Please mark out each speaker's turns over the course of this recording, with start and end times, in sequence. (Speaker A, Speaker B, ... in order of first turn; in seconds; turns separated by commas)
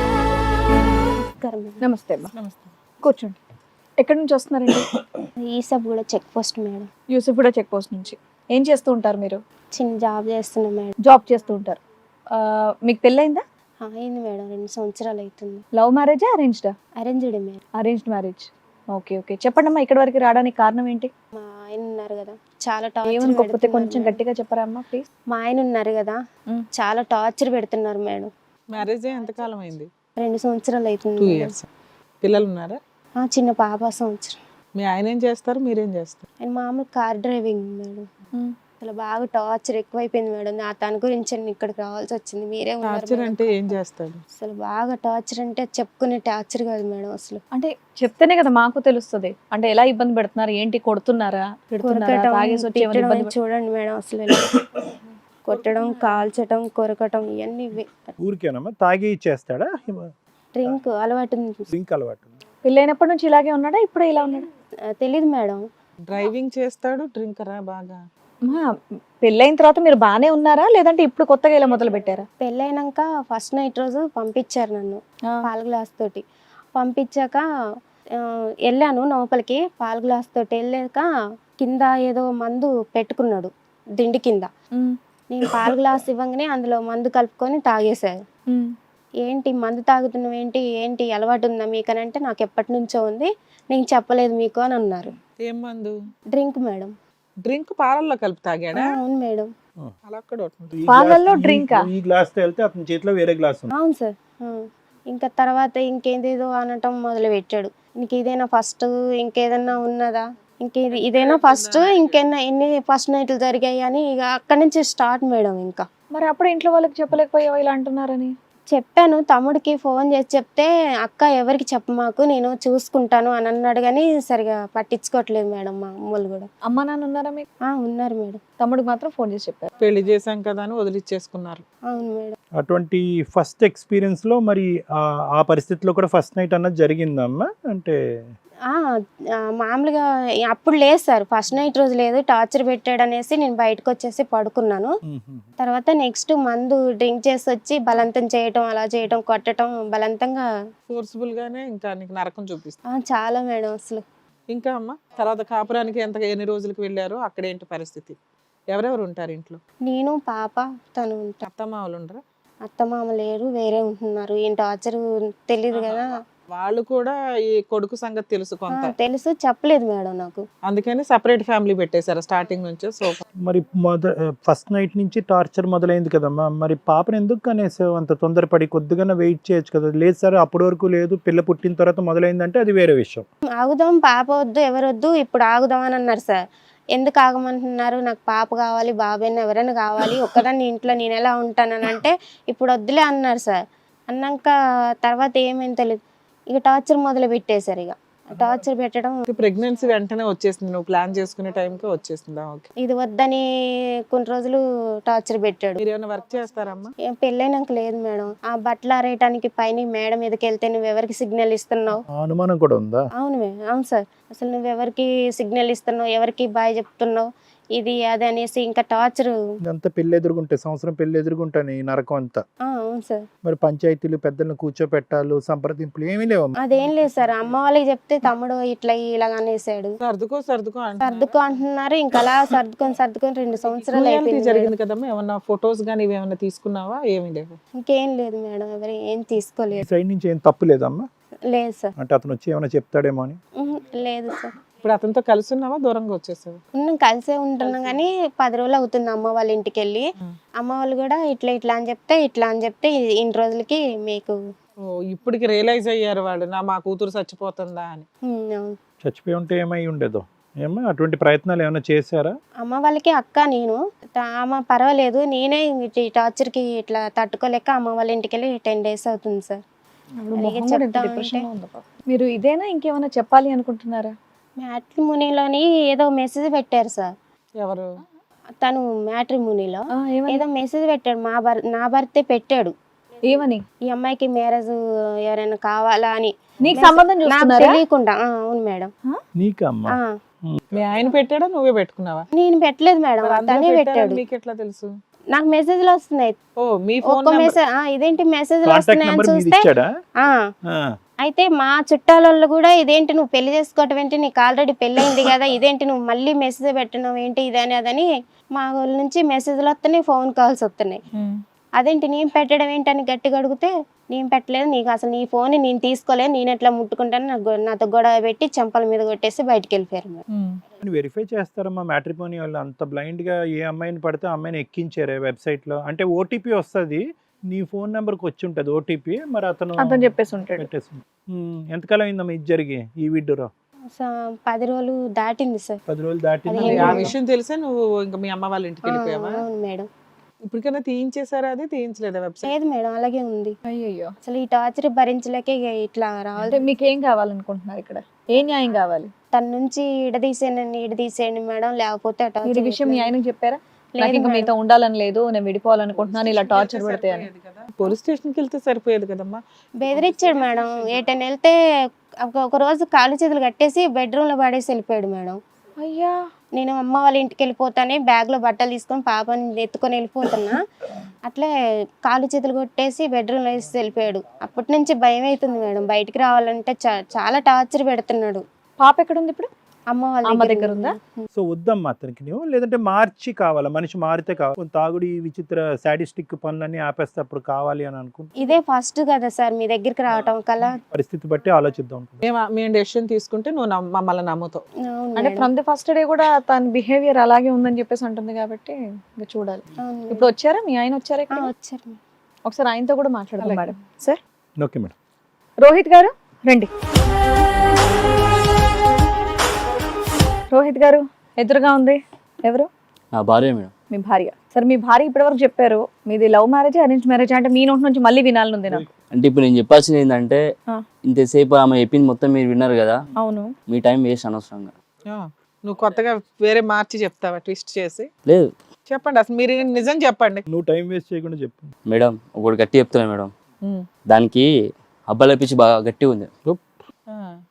Speaker A: 1.4-1.8, Speaker B: 1.8-2.3, Speaker C: 2.4-2.6, Speaker B: 3.0-3.4, Speaker B: 4.0-4.8, Speaker A: 5.5-6.9, Speaker B: 7.1-9.4, Speaker A: 9.7-10.9, Speaker B: 11.0-11.8, Speaker B: 12.3-13.4, Speaker A: 13.8-15.6, Speaker B: 15.7-16.7, Speaker A: 17.0-17.6, Speaker B: 17.8-21.1, Speaker A: 21.4-24.2, Speaker B: 23.1-25.0, Speaker A: 25.3-26.2, Speaker A: 26.7-28.3, Speaker C: 28.7-29.9, Speaker A: 30.2-31.6, Speaker C: 31.2-31.6, Speaker C: 32.2-32.8, Speaker A: 33.2-34.4, Speaker C: 34.8-36.2, Speaker A: 36.4-38.1, Speaker A: 38.8-43.8, Speaker C: 42.8-44.2, Speaker A: 44.4-47.4, Speaker B: 47.5-53.3, Speaker A: 51.8-54.6, Speaker A: 55.4-58.1, Speaker D: 58.2-60.1, Speaker A: 60.5-61.7, Speaker D: 61.7-62.3, Speaker B: 62.6-64.4, Speaker A: 65.0-65.6, Speaker C: 66.1-68.0, Speaker B: 69.2-72.2, Speaker A: 72.4-76.2, Speaker A: 76.7-77.4, Speaker A: 78.6-81.1, Speaker A: 81.6-84.5, Speaker A: 85.3-88.1, Speaker A: 89.2-95.1, Speaker C: 95.5-95.9, Speaker A: 96.3-96.9, Speaker C: 97.4-98.8, Speaker A: 98.7-99.5, Speaker C: 100.0-100.7, Speaker D: 100.7-103.7, Speaker B: 100.9-101.9, Speaker A: 103.8-115.8, Speaker C: 110.9-112.2, Speaker B: 116.1-118.3, Speaker A: 118.7-126.5, Speaker B: 126.7-127.4, Speaker A: 127.7-128.4, Speaker B: 128.6-129.7, Speaker C: 129.8-131.6, Speaker A: 131.9-132.3, Speaker D: 132.6-138.0, Speaker A: 139.6-144.9, Speaker D: 145.1-145.5, Speaker A: 145.6-150.4, Speaker C: 150.9-152.8, Speaker A: 152.9-154.0, Speaker C: 154.5-158.2, Speaker C: 158.7-159.6, Speaker A: 159.8-161.4, Speaker C: 161.4-162.2, Speaker A: 162.6-166.1, Speaker C: 166.5-168.9, Speaker A: 168.7-170.4, Speaker C: 170.7-173.2, Speaker D: 173.4-183.2, Speaker A: 183.6-186.4, Speaker A: 186.9-193.6, Speaker A: 194.1-194.5, Speaker A: 195.0-196.0, Speaker A: 196.5-199.2, Speaker C: 199.3-202.6, Speaker A: 202.8-203.4, Speaker A: 204.1-205.8, Speaker C: 205.8-206.9, Speaker A: 207.1-212.0, Speaker D: 212.1-213.1, Speaker A: 213.2-219.3, Speaker D: 219.6-222.4, Speaker A: 222.7-223.2, Speaker D: 223.4-226.6, Speaker A: 226.6-230.0, Speaker C: 230.0-231.3, Speaker A: 231.0-234.7, Speaker C: 233.8-237.6, Speaker A: 237.8-239.8, Speaker D: 239.8-241.1, Speaker A: 241.5-241.9, Speaker D: 242.0-243.4, Speaker A: 243.6-244.5, Speaker C: 244.8-246.6, Speaker A: 246.8-254.4, Speaker C: 247.6-247.9, Speaker C: 255.1-258.0, Speaker A: 258.3-258.8, Speaker D: 259.0-262.4, Speaker A: 262.6-269.6, Speaker B: 270.2-274.1, Speaker A: 270.3-271.5, Speaker A: 274.6-277.1, Speaker C: 277.6-277.9, Speaker A: 278.6-282.7, Speaker B: 279.9-280.4, Speaker B: 283.3-283.6, Speaker A: 283.9-284.8, Speaker A: 285.3-288.9, Speaker B: 286.6-287.8, Speaker D: 289.4-289.9, Speaker C: 290.8-292.2, Speaker A: 292.3-294.2, Speaker C: 293.2-294.9, Speaker A: 295.3-296.4, Speaker C: 296.6-297.5, Speaker A: 297.0-299.7, Speaker D: 298.6-299.9, Speaker D: 300.6-300.9, Speaker A: 301.2-311.0, Speaker A: 311.8-320.2, Speaker C: 320.3-320.6, Speaker D: 320.8-333.5, Speaker B: 329.8-330.7, Speaker A: 333.9-335.8, Speaker D: 335.9-337.1, Speaker A: 336.5-337.1, Speaker C: 336.6-339.4, Speaker A: 338.9-339.9, Speaker C: 340.5-342.5, Speaker A: 342.4-343.6, Speaker B: 343.7-344.1, Speaker A: 344.2-346.6, Speaker B: 346.5-349.1, Speaker A: 349.3-353.1, Speaker B: 352.4-357.3, Speaker A: 353.9-354.5, Speaker C: 356.0-359.4, Speaker A: 359.8-361.5, Speaker C: 359.9-360.9, Speaker A: 362.2-365.4, Speaker B: 365.8-366.1, Speaker A: 366.5-370.6, Speaker A: 372.0-378.4, Speaker B: 378.8-379.5, Speaker A: 379.9-381.3, Speaker B: 380.3-380.9, Speaker D: 381.3-388.3, Speaker A: 388.4-390.8, Speaker D: 390.9-392.2, Speaker C: 392.2-394.6, Speaker A: 394.9-395.5, Speaker B: 395.2-401.5, Speaker A: 399.8-400.2, Speaker A: 401.3-402.0, Speaker B: 402.4-404.2, Speaker D: 404.6-404.9, Speaker B: 405.6-406.7, Speaker B: 410.5-412.7, Speaker E: 413.1-413.7, Speaker B: 413.9-418.9, Speaker E: 419.1-420.4, Speaker E: 421.0-423.0, Speaker B: 423.2-423.5, Speaker E: 423.7-424.7, Speaker C: 425.1-428.1, Speaker E: 428.2-428.5, Speaker C: 428.9-430.4, Speaker D: 430.5-431.7, Speaker E: 431.9-433.3, Speaker E: 434.1-434.5, Speaker E: 435.1-436.3, Speaker D: 436.4-436.7